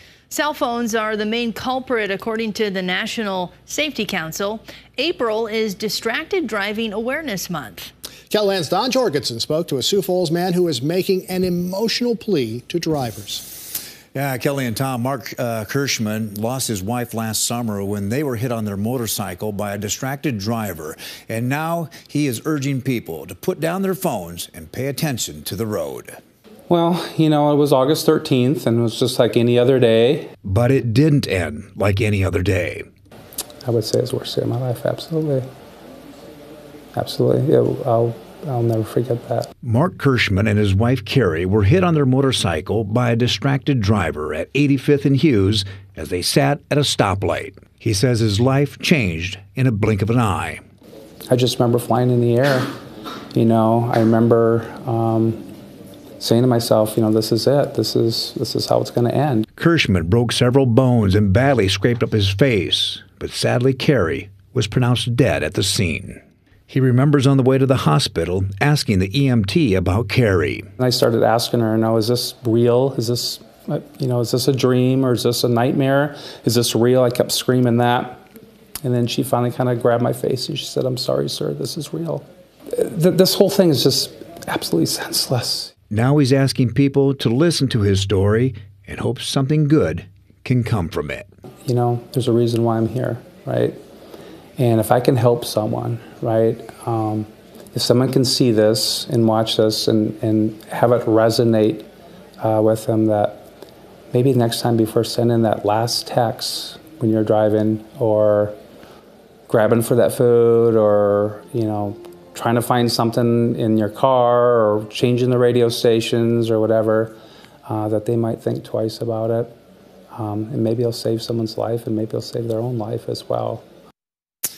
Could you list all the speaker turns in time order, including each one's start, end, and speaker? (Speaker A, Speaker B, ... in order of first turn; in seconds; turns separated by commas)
Speaker A: 0.3-7.9, Speaker B: 8.3-13.4, Speaker C: 14.1-26.2, Speaker D: 26.7-30.3, Speaker C: 30.4-32.9, Speaker D: 33.6-35.5, Speaker D: 36.9-39.5, Speaker C: 39.6-50.6, Speaker D: 51.3-52.8, Speaker D: 53.3-55.4, Speaker D: 56.2-59.5, Speaker C: 59.6-70.7, Speaker D: 70.8-78.2, Speaker D: 78.8-85.7, Speaker C: 85.9-91.3, Speaker D: 91.7-93.8, Speaker D: 94.6-101.9, Speaker D: 102.4-103.4, Speaker D: 104.1-108.6, Speaker D: 109.5-119.5, Speaker D: 120.1-123.6